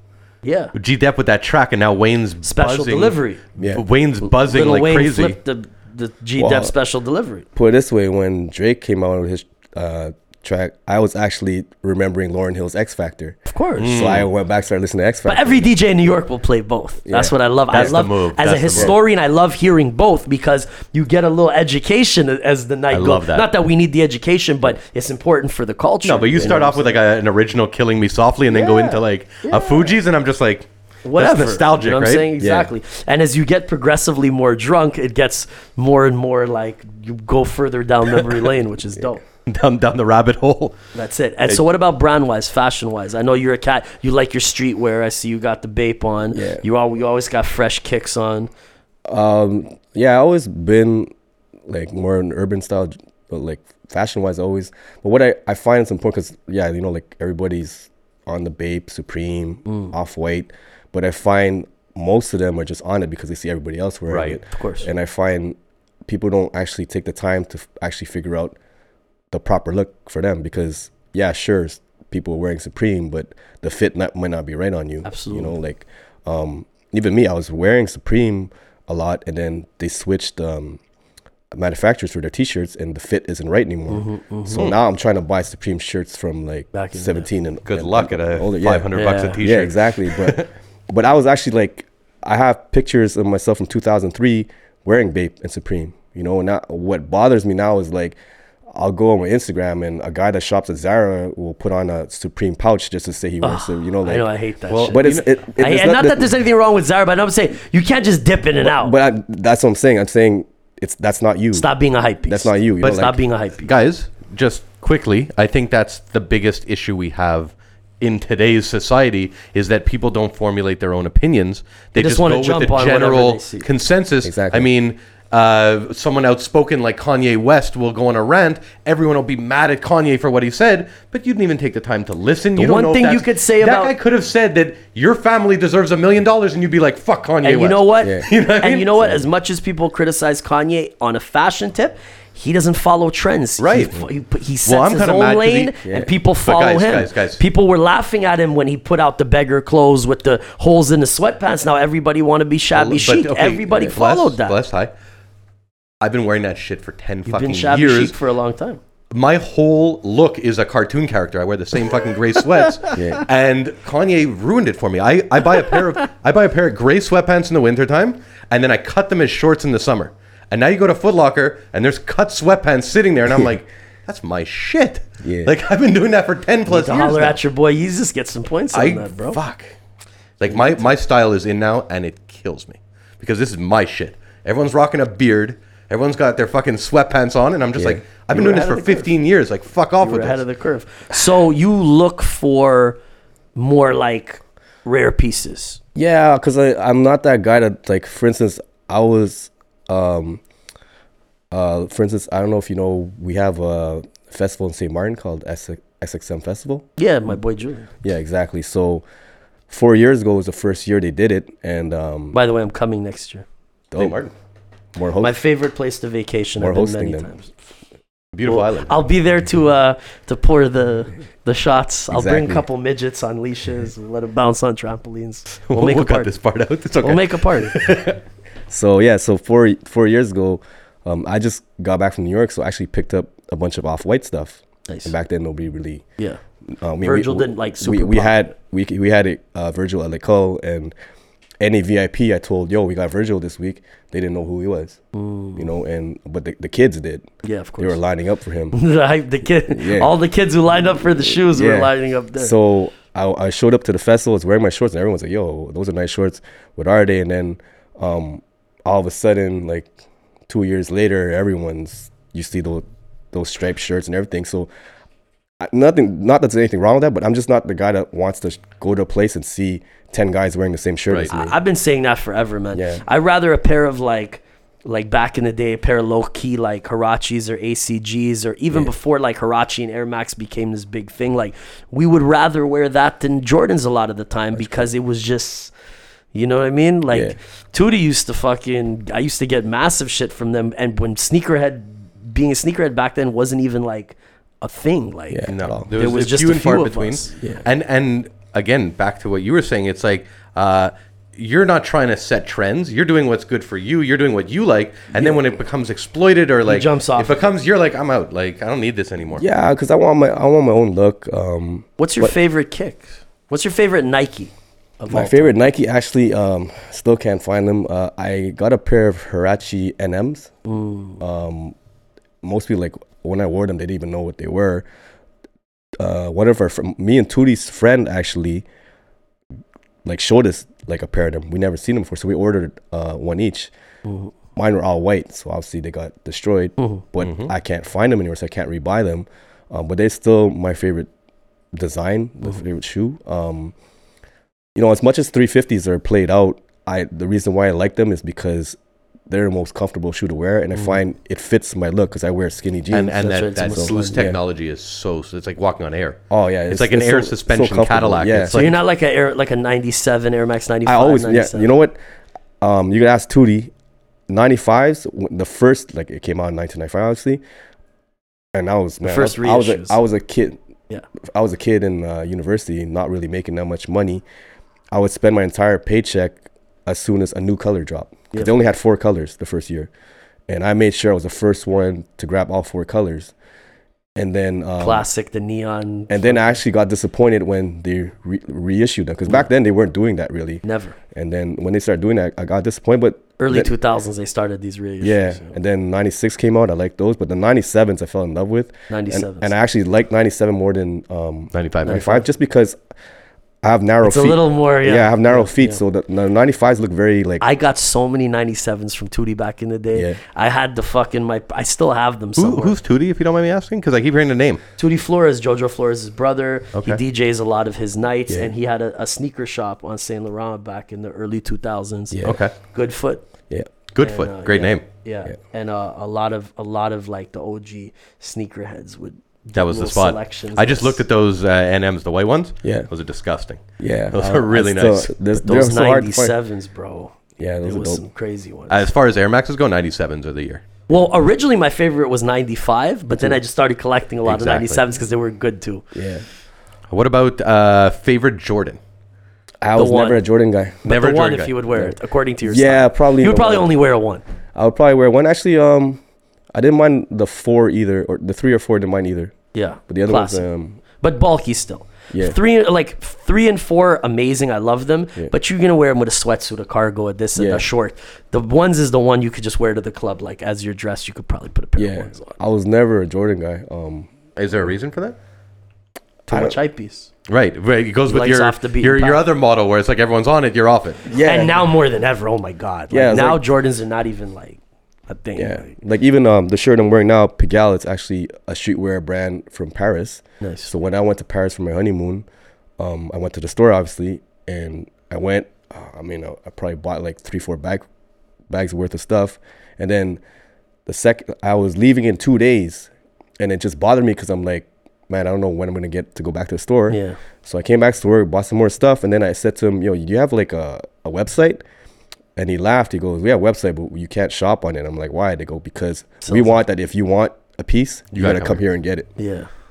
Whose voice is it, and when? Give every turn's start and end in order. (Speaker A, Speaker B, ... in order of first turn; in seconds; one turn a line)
Speaker A: 0.4-0.7
Speaker B: 0.8-5.4
Speaker A: 2.4-3.4
Speaker C: 3.6-3.8
Speaker A: 4.2-7.5
Speaker C: 6.4-6.7
Speaker C: 7.5-15.7
Speaker A: 13.5-14.1
Speaker B: 13.8-14.3
Speaker A: 15.3-27.0
Speaker C: 17.1-18.0
Speaker B: 17.7-18.9
Speaker B: 22.9-23.5
Speaker B: 26.0-32.3
Speaker A: 28.5-30.0
Speaker A: 31.1-39.2
Speaker C: 32.4-32.7
Speaker B: 39.5-40.8
Speaker A: 40.9-48.5
Speaker C: 46.3-46.6
Speaker C: 49.1-51.1
Speaker C: 51.7-65.6
Speaker B: 64.1-64.4
Speaker A: 64.2-64.9
Speaker C: 66.1-68.6
Speaker C: 69.3-80.8
Speaker A: 75.0-75.6
Speaker C: 81.5-98.2
Speaker A: 83.9-84.7
Speaker A: 86.7-87.2
Speaker B: 87.7-90.5
Speaker A: 88.9-89.4
Speaker C: 98.7-104.3
Speaker A: 103.4-109.0
Speaker B: 104.7-105.2
Speaker C: 104.8-106.3
Speaker C: 108.6-111.7
Speaker A: 111.5-113.7
Speaker C: 112.3-113.2
Speaker B: 112.8-139.2
Speaker A: 122.0-123.7
Speaker C: 124.2-124.7
Speaker A: 132.6-133.9
Speaker A: 137.4-154.6
Speaker C: 138.0-138.3
Speaker B: 143.6-144.1
Speaker B: 144.7-145.8
Speaker C: 145.8-146.1
Speaker B: 146.4-147.4
Speaker B: 152.7-154.9
Speaker B: 156.0-158.2
Speaker A: 157.3-158.8
Speaker B: 159.1-177.4
Speaker C: 162.9-163.3
Speaker C: 175.2-175.5
Speaker A: 176.7-179.4
Speaker B: 178.7-179.7
Speaker B: 180.4-190.4
Speaker C: 187.8-188.0
Speaker A: 188.3-189.2
Speaker A: 190.0-193.0
Speaker A: 193.6-195.8
Speaker C: 195.9-200.4
Speaker C: 201.5-206.9
Speaker A: 207.0-207.9
Speaker C: 208.0-209.0
Speaker C: 209.7-212.4
Speaker A: 212.3-213.4
Speaker C: 213.9-214.2
Speaker B: 214.0-214.3
Speaker C: 214.9-215.4
Speaker A: 215.2-217.5
Speaker C: 216.6-217.3
Speaker B: 218.3-219.0
Speaker A: 218.5-226.3
Speaker C: 222.1-222.7
Speaker B: 225.7-228.2
Speaker A: 227.0-227.8
Speaker C: 228.7-236.0
Speaker A: 234.9-235.1
Speaker C: 236.7-240.9
Speaker A: 237.0-238.5
Speaker C: 241.6-245.0
Speaker A: 245.1-245.6
Speaker C: 245.6-248.8
Speaker A: 247.4-248.0
Speaker A: 248.7-252.6
Speaker C: 249.7-250.1
Speaker C: 251.2-259.9
Speaker C: 260.5-264.7
Speaker C: 265.6-271.6
Speaker A: 271.3-285.7
Speaker C: 272.7-273.0
Speaker A: 286.3-297.4
Speaker C: 287.1-287.4
Speaker C: 295.3-295.9
Speaker B: 295.5-309.4
Speaker A: 306.7-307.4
Speaker C: 309.4-312.3
Speaker A: 312.0-315.5
Speaker C: 315.1-320.5
Speaker A: 320.7-321.2
Speaker C: 321.2-321.8
Speaker C: 322.4-324.9
Speaker C: 326.0-328.6
Speaker C: 330.1-333.7
Speaker A: 334.1-334.3
Speaker C: 334.6-341.1
Speaker B: 337.2-337.5
Speaker C: 341.7-343.7
Speaker C: 344.8-348.8
Speaker C: 349.3-354.4
Speaker B: 352.9-358.8
Speaker A: 353.2-354.3
Speaker C: 356.3-358.6
Speaker A: 358.5-361.7
Speaker C: 360.9-362.0
Speaker C: 362.6-363.7
Speaker C: 364.3-367.4
Speaker C: 368.5-370.6
Speaker A: 369.0-370.0
Speaker C: 371.2-374.2
Speaker C: 374.9-379.9
Speaker C: 380.5-383.3
Speaker C: 384.2-385.1
Speaker A: 384.8-386.6
Speaker C: 386.1-393.7
Speaker A: 390.6-391.0
Speaker A: 393.4-395.5
Speaker C: 395.0-402.8
Speaker A: 398.9-399.6
Speaker B: 401.5-402.1
Speaker A: 401.9-402.2
Speaker C: 403.6-407.4
Speaker A: 404.0-405.8
Speaker A: 407.4-412.8
Speaker B: 412.4-414.6
Speaker A: 414.8-423.2
Speaker B: 416.7-417.0
Speaker C: 422.1-422.4
Speaker B: 422.2-422.5
Speaker B: 423.9-424.9
Speaker A: 424.0-431.0
Speaker B: 429.6-435.1
Speaker C: 432.6-432.9
Speaker C: 433.8-436.4
Speaker A: 435.3-438.8
Speaker C: 437.4-438.1
Speaker B: 438.7-440.6
Speaker A: 440.9-445.9
Speaker B: 444.2-444.8
Speaker C: 445.9-446.2
Speaker B: 446.9-448.8
Speaker C: 449.6-450.9
Speaker A: 449.8-450.2
Speaker A: 450.9-454.2
Speaker B: 450.9-451.6
Speaker C: 451.7-453.7
Speaker C: 454.6-456.0
Speaker C: 456.5-459.3
Speaker A: 459.5-460.4
Speaker C: 459.9-460.8
Speaker A: 461.0-472.4
Speaker C: 462.1-462.4
Speaker C: 467.4-467.7
Speaker C: 471.8-474.1
Speaker B: 474.4-475.2
Speaker C: 476.3-476.6
Speaker A: 476.3-477.1
Speaker B: 477.3-481.1
Speaker A: 478.1-479.2
Speaker C: 481.1-481.6
Speaker A: 481.2-485.7
Speaker C: 482.9-483.4
Speaker C: 485.4-492.3
Speaker A: 490.4-490.7
Speaker C: 492.8-497.9
Speaker C: 498.5-500.2
Speaker C: 500.9-511.6
Speaker A: 506.9-507.2
Speaker C: 512.4-519.1
Speaker A: 516.2-516.6
Speaker B: 518.1-518.6
Speaker A: 519.2-519.5